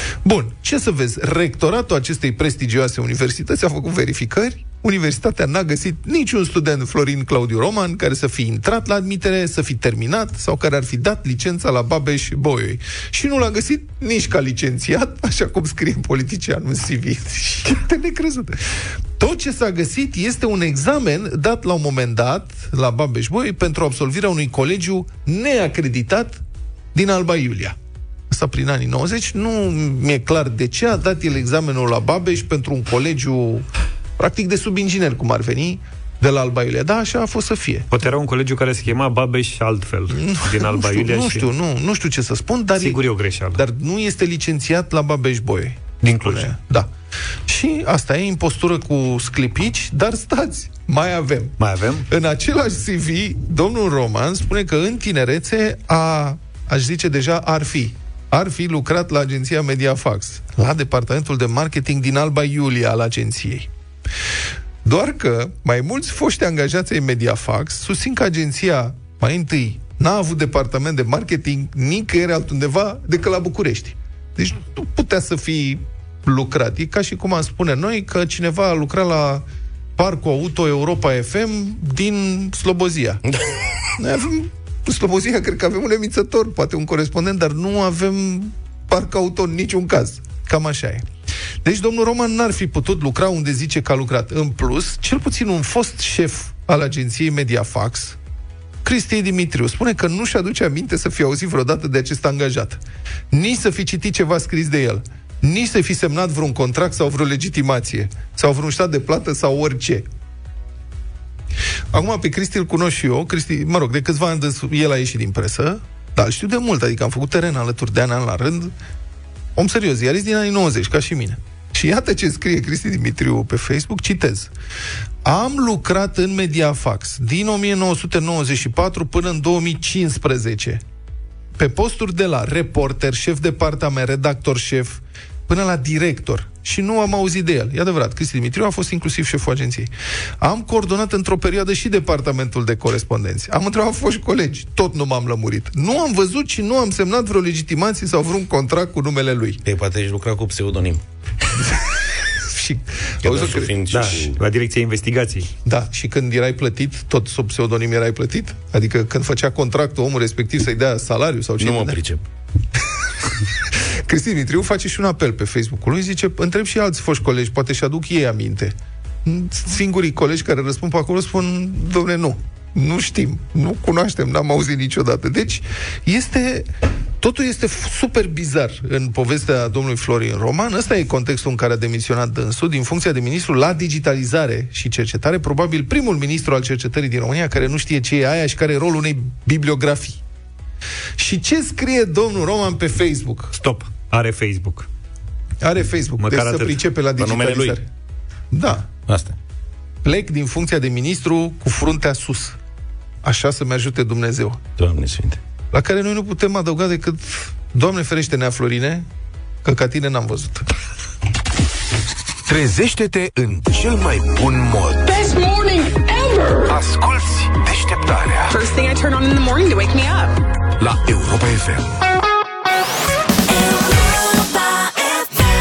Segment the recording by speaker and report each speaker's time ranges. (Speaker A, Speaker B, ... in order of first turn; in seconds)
Speaker A: 0.2-26.4, 26.9-27.8, 28.3-33.7, 34.2-37.9, 40.1-46.9, 47.5-51.6, 52.1-63.7, 64.8-79.5, 80.0-83.2, 84.0-91.1, 91.6-98.2, 98.8-110.1, 111.9-118.7, 119.6-124.5, 125.2-130.8, 131.6-149.6, 152.4-154.3, 155.7-162.0, 163.8-176.7, 177.2-190.2, 191.2-193.6, 195.6-197.9, 198.5-198.9, 200.0-202.6, 203.2-204.6, 205.7-209.1, 209.6-210.7
Speaker B: 37.9-41.5, 42.8-43.6, 46.0-46.5, 51.6-52.1, 153.9-155.5, 193.6-194.9, 196.2-196.8
Speaker C: 149.7-151.0, 153.2-154.4, 161.6-162.2, 197.2-197.8, 199.1-199.4, 204.8-205.4
Speaker D: 212.5-215.2, 216.7-218.7, 220.8-222.0
Speaker E: 215.1-216.7, 218.5-220.3